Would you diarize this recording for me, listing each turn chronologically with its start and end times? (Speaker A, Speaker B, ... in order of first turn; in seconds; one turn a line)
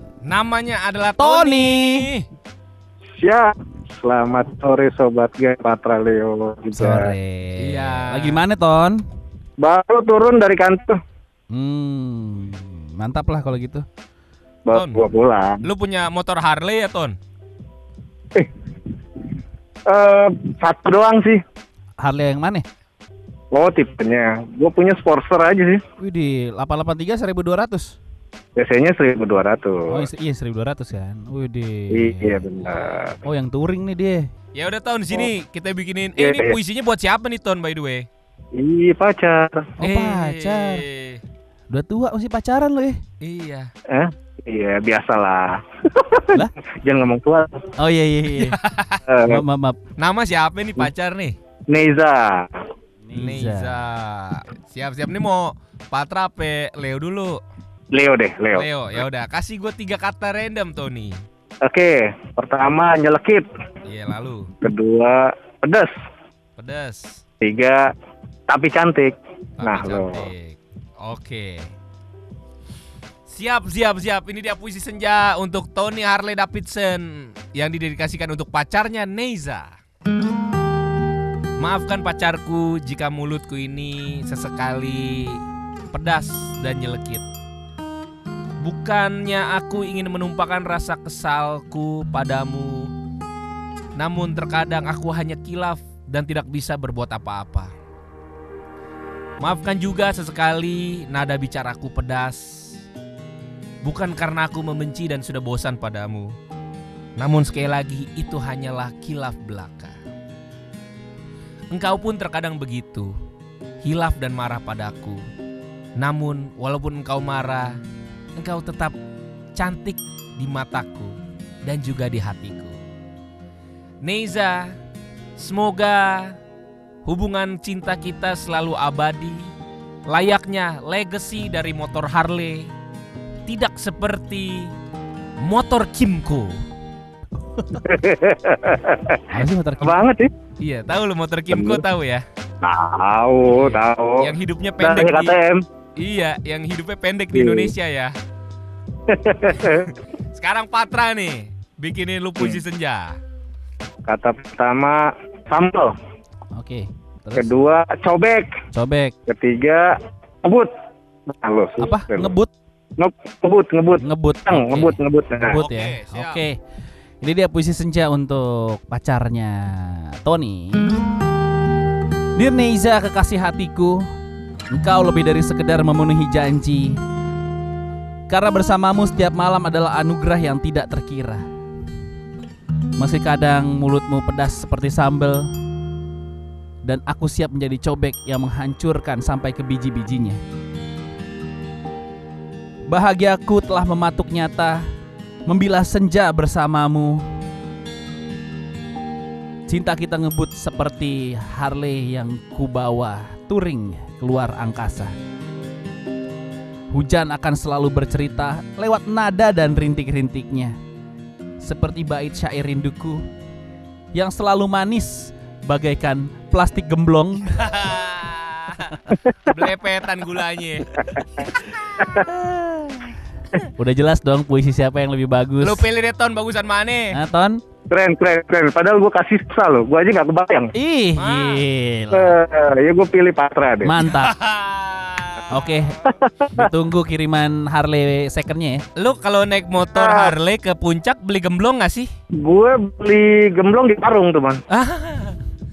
Speaker A: 0.2-2.2
Speaker B: 1.2-2.1
Speaker C: 3.2-7.1
Speaker B: 6.7-9.0
Speaker A: 7.6-8.4
Speaker C: 9.6-11.0
Speaker B: 11.5-13.8
Speaker C: 14.7-15.6
Speaker A: 14.7-15.0
Speaker A: 15.6-17.1
Speaker C: 19.9-21.4
Speaker B: 22.0-22.6
Speaker C: 23.5-25.8
Speaker B: 26.0-28.0
Speaker C: 28.6-29.9
Speaker B: 29.9-34.2
Speaker C: 31.9-33.1
Speaker A: 34.5-38.1
Speaker C: 36.2-36.6
Speaker C: 38.5-39.7
Speaker B: 39.8-40.8
Speaker A: 39.8-41.2
Speaker B: 41.7-43.0
Speaker A: 43.2-43.7
Speaker C: 43.9-47.6
Speaker B: 47.8-48.6
Speaker A: 48.3-49.0
Speaker C: 49.1-49.4
Speaker B: 49.3-49.8
Speaker A: 50.0-51.4
Speaker C: 51.7-52.5
Speaker B: 53.0-53.8
Speaker A: 53.1-57.4
Speaker C: 57.9-58.7
Speaker A: 58.5-61.2
Speaker C: 61.6-63.5
Speaker A: 63.8-64.5
Speaker C: 64.6-65.9
Speaker A: 66.6-67.2
Speaker C: 67.4-67.9
Speaker C: 68.5-70.3
Speaker A: 69.6-71.7
Speaker A: 73.3-79.7
Speaker A: 81.6-85.4
Speaker A: 85.9-87.2
Speaker A: 88.6-92.9
Speaker A: 94.0-97.7
Speaker A: 99.4-102.8
Speaker A: 103.8-106.3
Speaker A: 107.2-110.0
Speaker A: 111.7-113.1
Speaker A: 113.8-115.2
Speaker A: 116.0-117.8
Speaker A: 118.4-118.9
Speaker A: 119.5-122.8
Speaker A: 124.0-124.7
Speaker A: 125.4-126.3
Speaker A: 127.0-129.5
Speaker A: 130.1-132.7
Speaker A: 133.5-134.7
Speaker A: 135.4-136.6
Speaker B: 137.6-137.8
Speaker C: 137.8-139.2
Speaker B: 139.3-140.0
Speaker C: 139.8-140.3
Speaker A: 140.6-142.2
Speaker C: 141.5-141.8
Speaker C: 142.6-144.3
Speaker A: 143.5-145.3
Speaker C: 144.8-145.6
Speaker A: 146.0-148.1
Speaker C: 147.3-147.7
Speaker C: 149.1-149.8
Speaker A: 149.6-153.2
Speaker C: 154.1-155.9
Speaker B: 156.5-157.5
Speaker C: 157.3-158.5
Speaker B: 158.7-159.1
Speaker C: 159.2-159.9
Speaker C: 160.4-160.7
Speaker C: 161.3-162.3
Speaker B: 161.8-162.5
Speaker C: 163.0-165.6
Speaker B: 164.0-166.5
Speaker A: 165.5-166.4
Speaker B: 167.2-170.8
Speaker B: 172.3-174.0
Speaker B: 174.7-177.0
Speaker B: 178.3-181.4
Speaker B: 183.0-185.5
Speaker B: 186.8-190.4
Speaker B: 192.9-194.8
Speaker B: 195.5-197.2
Speaker B: 199.7-205.1
Speaker B: 206.9-210.7
Speaker B: 211.6-213.2
Speaker B: 214.1-217.5
Speaker A: 217.5-221.6
Speaker B: 222.1-223.1
Speaker B: 223.8-225.8
Speaker A: 225.6-227.1
Speaker B: 227.1-227.6
Speaker C: 227.9-230.7
Speaker B: 230.7-232.3
Speaker A: 231.2-231.6
Speaker C: 232.1-233.9
Speaker B: 233.8-234.3
Speaker A: 234.0-235.5
Speaker B: 235.5-236.0
Speaker C: 236.1-236.7
Speaker B: 236.5-238.8
Speaker A: 238.9-242.1
Speaker C: 239.9-240.3
Speaker C: 242.3-244.6
Speaker A: 244.7-245.4